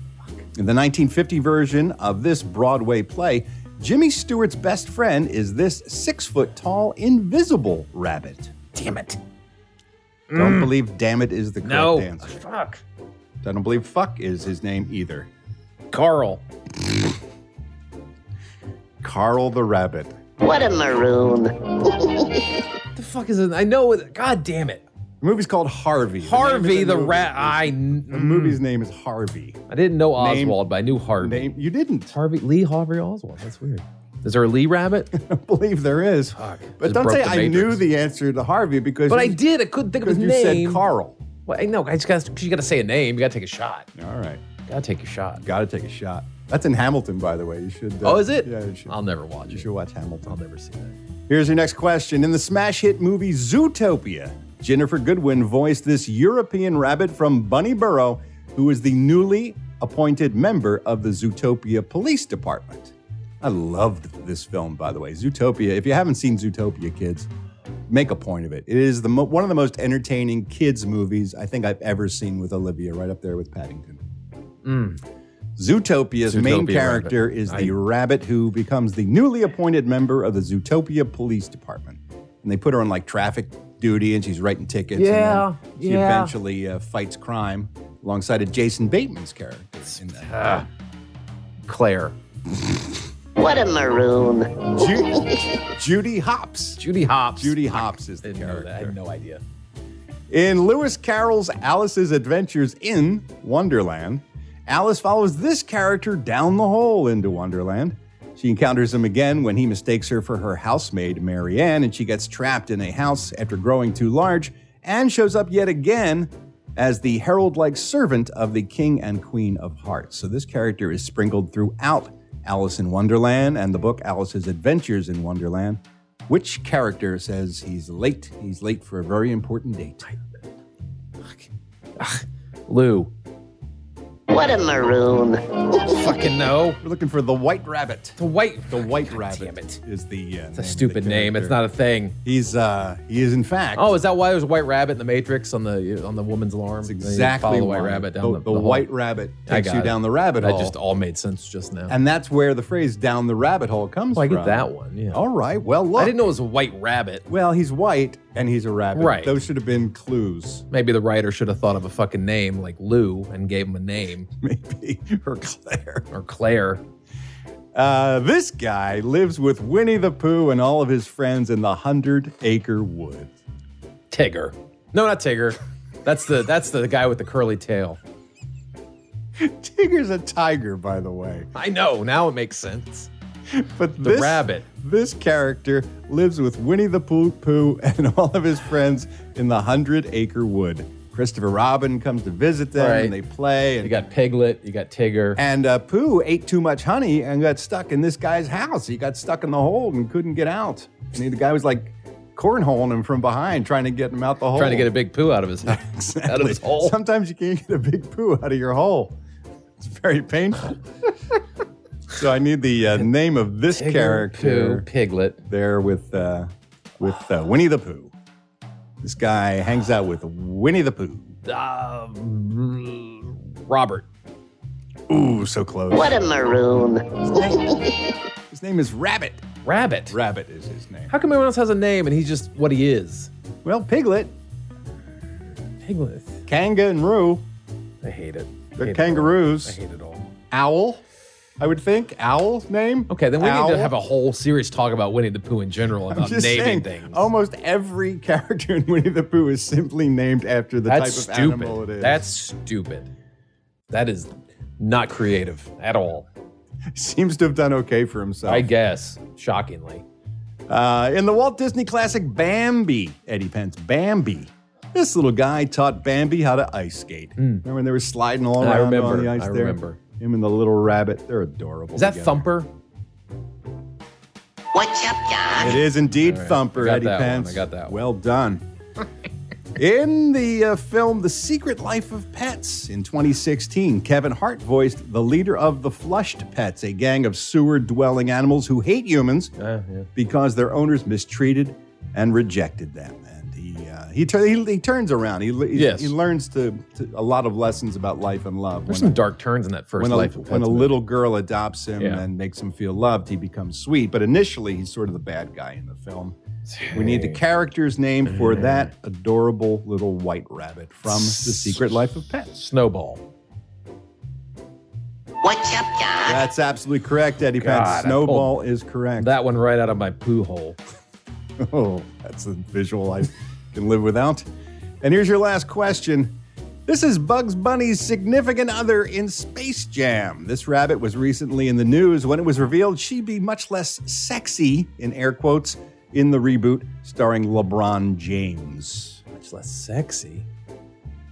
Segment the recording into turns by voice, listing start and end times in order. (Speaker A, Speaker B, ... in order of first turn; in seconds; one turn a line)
Speaker A: 0.5-8.6
Speaker B: 8.7-9.2
Speaker B: 10.3-10.7
Speaker A: 10.3-12.4
Speaker B: 11.6-12.8
Speaker A: 13.4-15.3
Speaker B: 15.9-16.4
Speaker A: 19.0-20.1
Speaker C: 20.4-22.3
Speaker B: 22.9-24.8
Speaker A: 25.2-29.6
Speaker B: 26.2-28.6
Speaker B: 29.7-31.5
Speaker A: 30.2-30.6
Speaker A: 31.2-32.1
Speaker B: 32.1-35.1
Speaker A: 35.1-39.4
Speaker B: 36.3-37.8
Speaker B: 39.1-40.8
Speaker A: 40.0-41.2
Speaker B: 41.5-43.9
Speaker A: 43.9-44.4
Speaker B: 44.7-45.4
Speaker A: 45.4-48.9
Speaker B: 48.0-49.7
Speaker A: 49.5-50.4
Speaker B: 50.2-50.9
Speaker A: 51.3-67.3
Speaker A: 67.9-74.0
Speaker B: 74.6-75.0
Speaker A: 75.6-90.6
Speaker B: 76.2-77.8
Speaker B: 85.0-86.3
Speaker B: 90.1-90.7
Speaker B: 91.6-92.1
Speaker C: 93.4-94.7
Speaker A: 94.7-99.0
Speaker B: 96.8-99.4
Speaker A: 100.3-130.1
Speaker B: 130.0-130.4
Speaker B: 131.2-133.1
Speaker C: 134.3-135.9
Speaker B: 135.9-136.8
Speaker A: 136.8-138.2
Speaker B: 138.2-139.8
Speaker A: 138.7-141.6
Speaker B: 140.5-142.2
Speaker A: 142.2-143.9
Speaker B: 143.8-148.9
Speaker A: 146.8-150.7
Speaker B: 149.4-151.9
Speaker A: 151.9-156.2
Speaker B: 154.1-155.2
Speaker B: 155.9-157.2
Speaker A: 157.3-160.6
Speaker B: 158.9-159.3
Speaker B: 160.7-164.3
Speaker A: 164.4-166.1
Speaker B: 166.1-166.8
Speaker A: 167.7-173.3
Speaker B: 174.1-178.0
Speaker A: 179.4-181.5
Speaker B: 181.5-183.1
Speaker A: 183.5-193.9
Speaker B: 184.0-184.7
Speaker B: 192.8-193.2
Speaker B: 193.8-195.4
Speaker A: 195.4-204.9
Speaker B: 204.5-206.9
Speaker A: 205.7-209.2
Speaker A: 209.8-210.8
Speaker A: 212.1-214.8
Speaker B: 213.7-215.4
Speaker A: 215.4-218.1
Speaker A: 219.0-221.4
Speaker B: 221.4-224.0
Speaker A: 225.1-226.2
Speaker C: 225.9-227.8
Speaker A: 227.3-227.6
Speaker A: 228.5-229.4
Speaker B: 229.6-230.2
Speaker A: 230.1-231.1
Speaker B: 231.1-233.3
Speaker A: 233.6-234.3
Speaker B: 235.8-236.4
Speaker A: 236.4-237.4
Speaker B: 238.0-240.3
Speaker A: 238.8-239.8
Speaker A: 240.5-241.0
Speaker A: 241.6-243.9
Speaker B: 243.1-247.2
Speaker A: 246.1-252.2
Speaker B: 250.8-253.1
Speaker B: 253.9-256.3
Speaker A: 256.9-258.7
Speaker B: 258.4-260.0
Speaker A: 260.7-272.5
Speaker B: 267.4-267.6
Speaker B: 268.6-270.0
Speaker B: 271.9-272.7
Speaker C: 274.7-275.8
Speaker A: 275.6-278.6
Speaker B: 276.2-278.0
Speaker A: 279.8-289.5
Speaker B: 289.6-290.1
Speaker A: 290.1-299.2
Speaker B: 295.7-296.1
Speaker B: 298.9-300.9
Speaker A: 300.0-306.4
Speaker B: 302.0-302.2
Speaker B: 306.7-307.4
Speaker A: 306.9-312.5
Speaker B: 308.2-308.9
Speaker B: 311.1-312.0
Speaker B: 312.5-313.2
Speaker C: 315.4-316.4
Speaker A: 316.3-319.3
Speaker B: 317.5-318.5
Speaker B: 319.2-320.8
Speaker A: 321.6-324.4
Speaker A: 325.0-339.2
Speaker B: 339.3-340.4